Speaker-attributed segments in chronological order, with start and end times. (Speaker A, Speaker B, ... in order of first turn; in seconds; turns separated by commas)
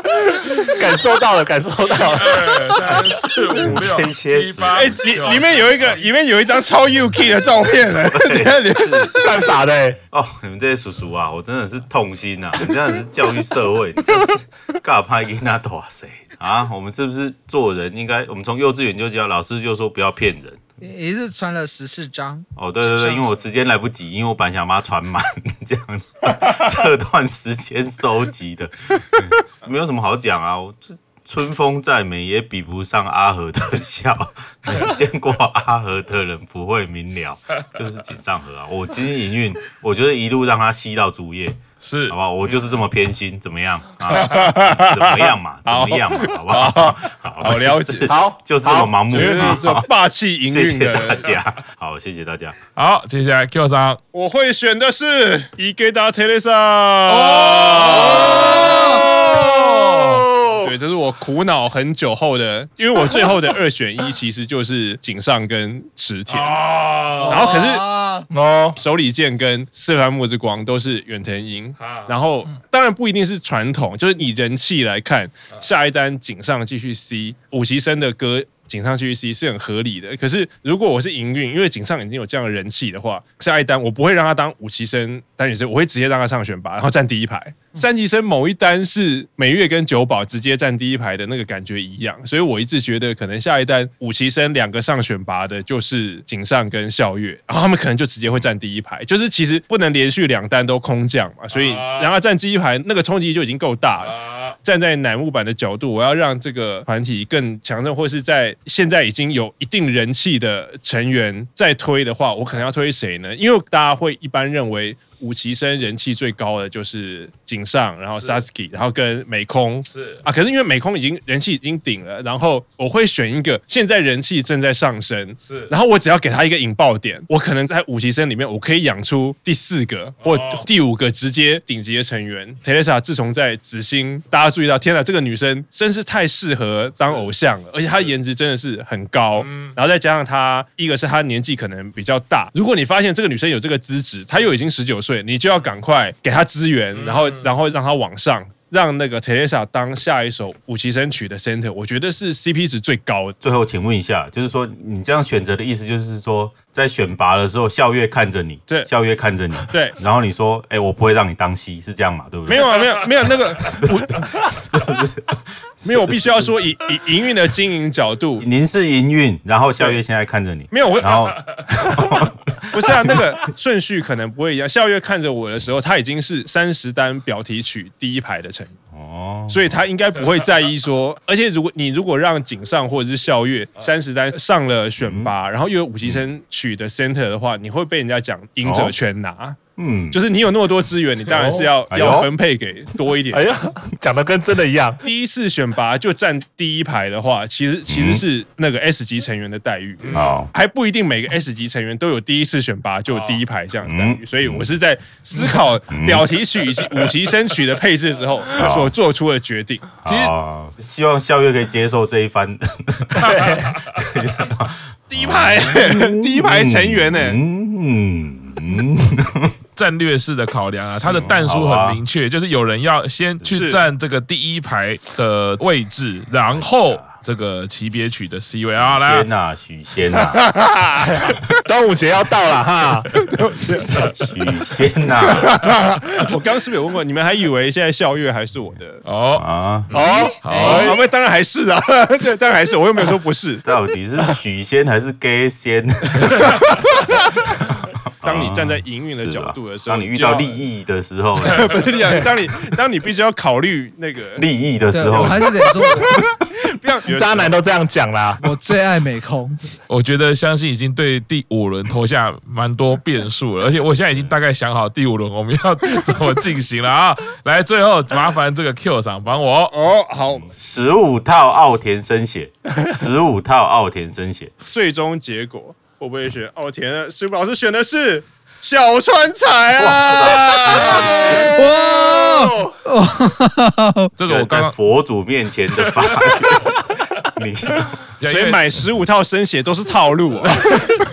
Speaker A: 0.3-2.8, Speaker B: 2.0-6.0, Speaker C: 3.6-5.0, Speaker D: 4.7-9.4, Speaker C: 8.0-9.3, Speaker A: 9.1-10.0, Speaker C: 10.1-20.6, Speaker E: 20.8-22.5, Speaker C: 22.6-49.9, Speaker B: 41.8-42.2, Speaker D: 44.1-48.1, Speaker A: 48.1-49.5, Speaker D: 49.1-51.3, Speaker C: 50.4-52.6, Speaker B: 52.8-54.0, Speaker D: 54.1-58.4, Speaker B: 57.1-60.3, Speaker E: 57.9-59.0, Speaker A: 58.2-60.7, Speaker D: 60.6-66.6, Speaker B: 66.3-67.5, Speaker E: 67.2-68.3, Speaker D: 67.3-67.8, Speaker A: 68.3-68.8, Speaker D: 68.8-153.4, Speaker B: 71.8-72.1, Speaker B: 101.5-102.1, Speaker B: 104.0-104.6, Speaker B: 119.9-120.2, Speaker B: 125.4-125.7, Speaker B: 130.2-130.7, Speaker B: 139.4-139.8, Speaker B: 146.9-147.5, Speaker C: 153.4-162.9, Speaker D: 159.7-160.0, Speaker D: 162.5-164.4, Speaker C: 163.6-166.6, Speaker D: 165.8-168.4, Speaker C: 168.4-173.2, Speaker D: 170.7-171.2, Speaker D: 172.7-178.7, Speaker C: 178.9-179.7, Speaker D: 179.5-189.6, Speaker C: 185.0-185.3, Speaker C: 188.6-188.9, Speaker C: 189.8-190.2, Speaker D: 190.1-193.5, Speaker A: 191.3-191.7, Speaker C: 191.9-192.3, Speaker A: 193.3-195.0, Speaker D: 195.0-209.9, Speaker C: 197.9-198.2, Speaker B: 200.0-200.4, Speaker C: 200.1-200.5, Speaker B: 203.1-203.4, Speaker C: 203.8-204.7, Speaker C: 205.9-206.3, Speaker C: 208.6-208.9, Speaker C: 210.0-219.6, Speaker B: 210.1-210.3, Speaker A: 213.2-213.8, Speaker B: 213.4-213.9, Speaker D: 215.1-217.4, Speaker B: 219.8-229.3, Speaker C: 221.0-222.0, Speaker D: 223.4-223.9, Speaker C: 226.5-227.1, Speaker C: 228.8-230.4, Speaker D: 230.5-231.2, Speaker A: 231.0-233.2, Speaker D: 233.2-233.8, Speaker C: 233.7-235.7, Speaker D: 235.2-239.0, Speaker B: 239.1-239.4, Speaker C: 239.4-239.9, Speaker A: 239.9-241.0, Speaker B: 240.0-241.0, Speaker E: 240.0-240.9, Speaker D: 240.6-243.7, Speaker C: 243.6-246.8, Speaker C: 247.5-251.9, Speaker D: 248.2-250.6, Speaker D: 251.4-254.4, Speaker C: 254.4-255.6, Speaker E: 254.9-256.2, Speaker D: 256.0-257.6, Speaker A: 257.1-258.5, Speaker E: 258.4-259.6, Speaker B: 259.9-269.7, Speaker D: 269.7-270.5, Speaker C: 270.4-274.5, Speaker D: 274.7-281.3, Speaker C: 279.8-281.5, Speaker A: 281.1-282.8, Speaker E: 281.4-284.1, Speaker B: 284.2-284.8, Speaker C: 284.2-288.0, Speaker B: 285.8-286.2, Speaker B: 288.2-288.7, Speaker D: 288.3-290.8, Speaker A: 290.7-291.0